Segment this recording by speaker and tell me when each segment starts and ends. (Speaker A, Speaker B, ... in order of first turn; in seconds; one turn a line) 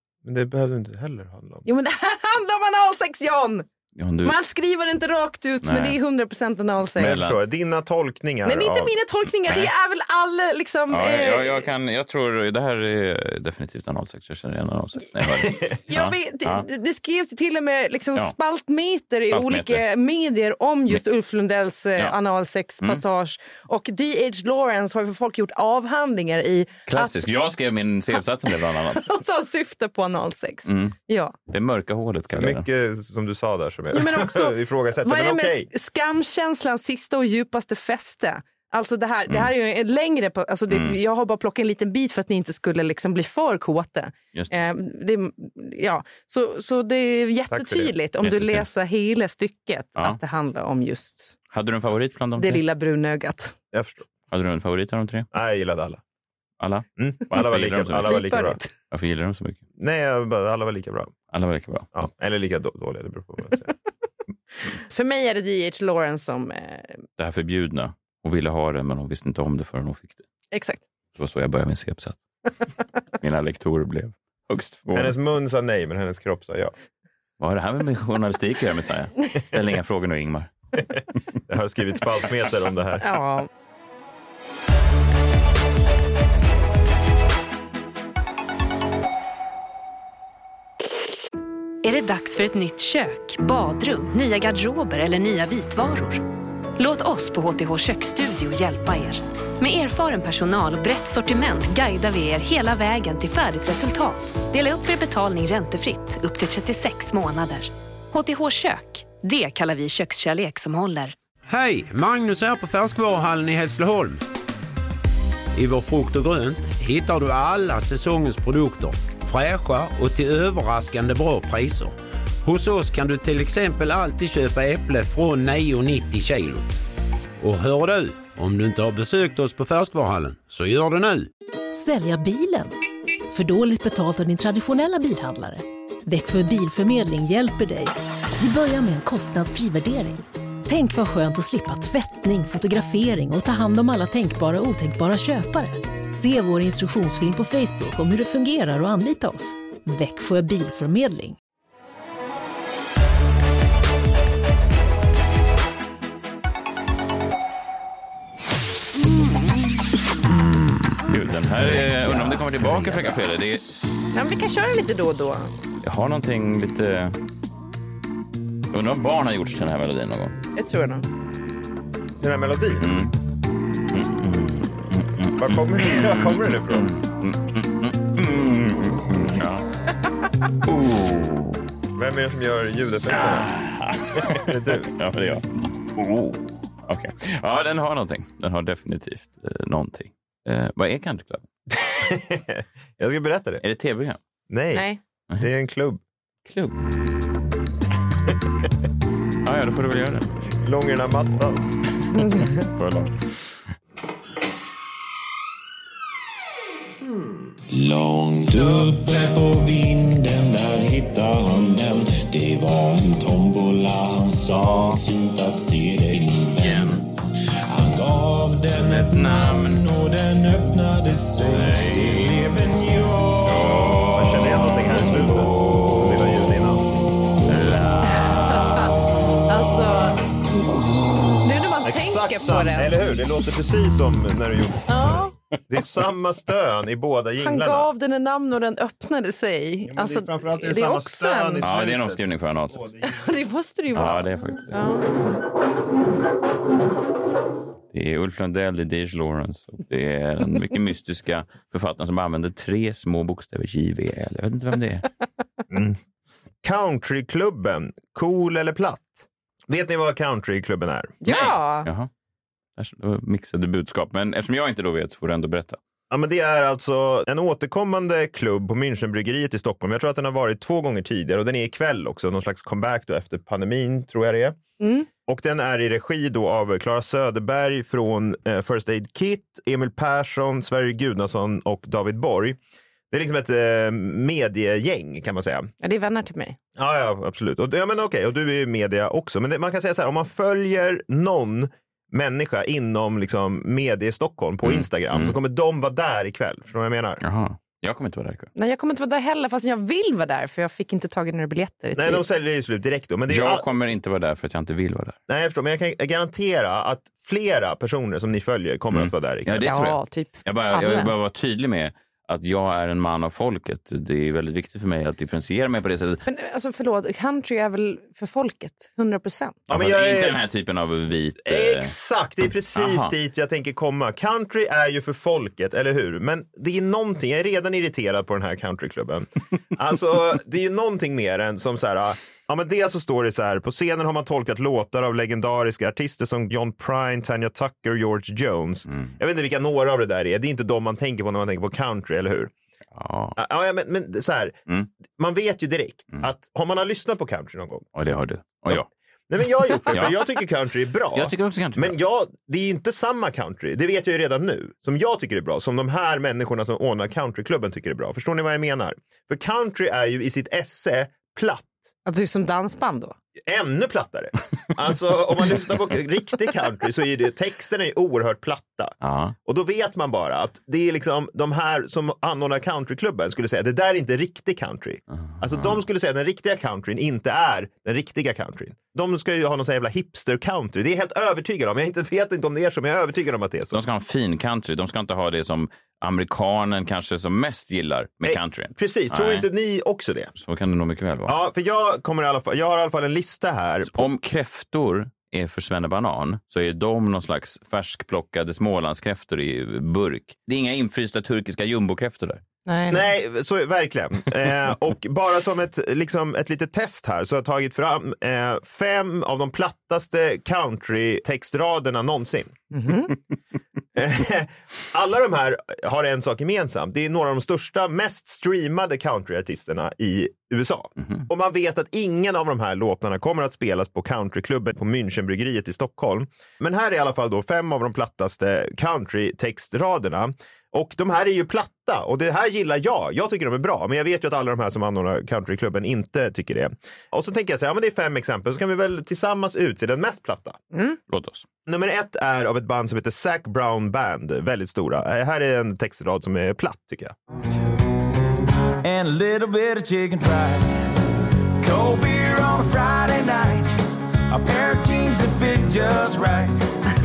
Speaker A: 0.2-1.6
Speaker B: 1.6-3.7
Speaker C: 4.0-4.4
Speaker B: 4.2-7.2
Speaker C: 5.6-6.0
Speaker C: 7.0-7.4
Speaker A: 7.0-8.9
Speaker B: 8.4-11.7
Speaker C: 10.9-16.6
Speaker B: 15.9-27.3
Speaker C: 19.3-19.8
Speaker C: 26.9-29.1
Speaker B: 28.5-31.4
Speaker C: 30.7-31.0
Speaker C: 31.5-32.6
Speaker A: 32.3-35.7
Speaker B: 33.9-51.4
Speaker C: 40.7-41.0
Speaker A: 47.5-47.9
Speaker C: 48.2-48.7
Speaker C: 51.5-52.6
Speaker B: 52.4-53.5
Speaker A: 53.7-54.1
Speaker C: 54.3-55.3
Speaker A: 55.3-56.0
Speaker C: 56.6-58.2
Speaker A: 57.0-58.6
Speaker B: 58.1-58.7
Speaker C: 58.9-59.6
Speaker A: 59.8-61.1
Speaker C: 61.3-62.0
Speaker A: 62.0-63.7
Speaker B: 64.7-67.0
Speaker C: 67.2-70.3
Speaker B: 70.5-70.8
Speaker C: 71.2-72.2
Speaker C: 73.2-75.2
Speaker A: 74.9-76.7
Speaker C: 77.4-80.5
Speaker A: 81.5-83.2
Speaker B: 83.0-83.5
Speaker D: 91.8-96.2
Speaker D: 96.8-111.2
Speaker E: 111.5-114.2
Speaker E: 115.5-126.8
Speaker E: 127.4-131.3
Speaker F: 131.7-132.7
Speaker F: 133.3-151.4
Speaker C: 161.1-163.6
Speaker B: 164.1-165.5
Speaker C: 165.8-167.2
Speaker C: 168.7-170.3
Speaker B: 170.6-171.1
Speaker A: 172.2-172.9
Speaker C: 172.8-173.1
Speaker C: 173.9-179.7
Speaker A: 175.4-176.9
Speaker C: 180.7-181.6
Speaker A: 182.0-183.5
Speaker C: 183.1-191.5
Speaker A: 184.3-184.9
Speaker A: 191.7-193.6
Speaker C: 193.6-194.2
Speaker A: 194.5-194.9
Speaker B: 194.7-195.0
Speaker A: 195.4-196.0
Speaker C: 196.5-196.8
Speaker C: 199.4-200.3
Speaker A: 200.6-201.6
Speaker B: 202.2-202.6
Speaker C: 202.3-203.7
Speaker G: 207.7-217.1
Speaker C: 216.6-217.0
Speaker G: 217.7-224.1
Speaker C: 219.1-219.8
Speaker C: 221.5-222.3
Speaker C: 223.4-226.0
Speaker A: 224.1-226.9
Speaker A: 227.5-227.8
Speaker C: 227.5-228.9
Speaker B: 228.2-228.9
Speaker B: 229.5-230.2
Speaker B: 231.4-232.9
Speaker A: 231.8-237.9
Speaker B: 234.9-235.3
Speaker B: 237.4-241.7
Speaker A: 239.9-243.2
Speaker C: 241.6-242.9
Speaker B: 243.0-245.1
Speaker C: 243.9-244.8
Speaker C: 247.9-255.1
Speaker A: 255.7-256.0
Speaker A: 256.6-261.2
Speaker B: 261.2-261.9
Speaker C: 261.3-262.1
Speaker C: 262.8-265.8
Speaker A: 266.1-274.6
Speaker B: 274.8-275.1
Speaker A: 275.3-282.6
Speaker A: 283.1-285.7
Speaker B: 285.8-286.6
Speaker A: 286.8-297.2
Speaker C: 294.6-295.4
Speaker C: 297.2-298.5
Speaker B: 298.6-302.2
Speaker A: 301.9-303.7
Speaker C: 303.3-305.2
Speaker A: 305.3-309.7
Speaker C: 308.9-316.2
Speaker B: 309.6-311.1
Speaker B: 316.3-319.6
Speaker A: 319.7-320.4
Speaker C: 319.7-321.9
Speaker A: 321.4-342.5
Speaker C: 322.7-323.1
Speaker C: 342.9-343.4
Speaker A: 343.4-344.6
Speaker A: 345.1-347.9
Speaker C: 347.9-348.9
Speaker A: 348.7-361.7
Speaker C: 349.7-350.2
Speaker C: 351.1-352.0
Speaker B: 362.1-363.1
Speaker A: 363.4-383.8
Speaker C: 369.0-369.4
Speaker C: 375.3-375.8
Speaker C: 383.7-389.5
Speaker A: 388.2-390.3
Speaker C: 390.4-391.4
Speaker A: 391.3-394.1
Speaker C: 393.9-402.4
Speaker B: 402.7-403.1
Speaker A: 402.9-412.5
Speaker B: 412.7-413.1
Speaker A: 414.0-440.6
Speaker B: 440.7-441.0
Speaker C: 441.1-441.5
Speaker A: 441.7-447.1
Speaker G: 448.8-451.0
Speaker G: 451.6-453.7
Speaker G: 454.3-456.7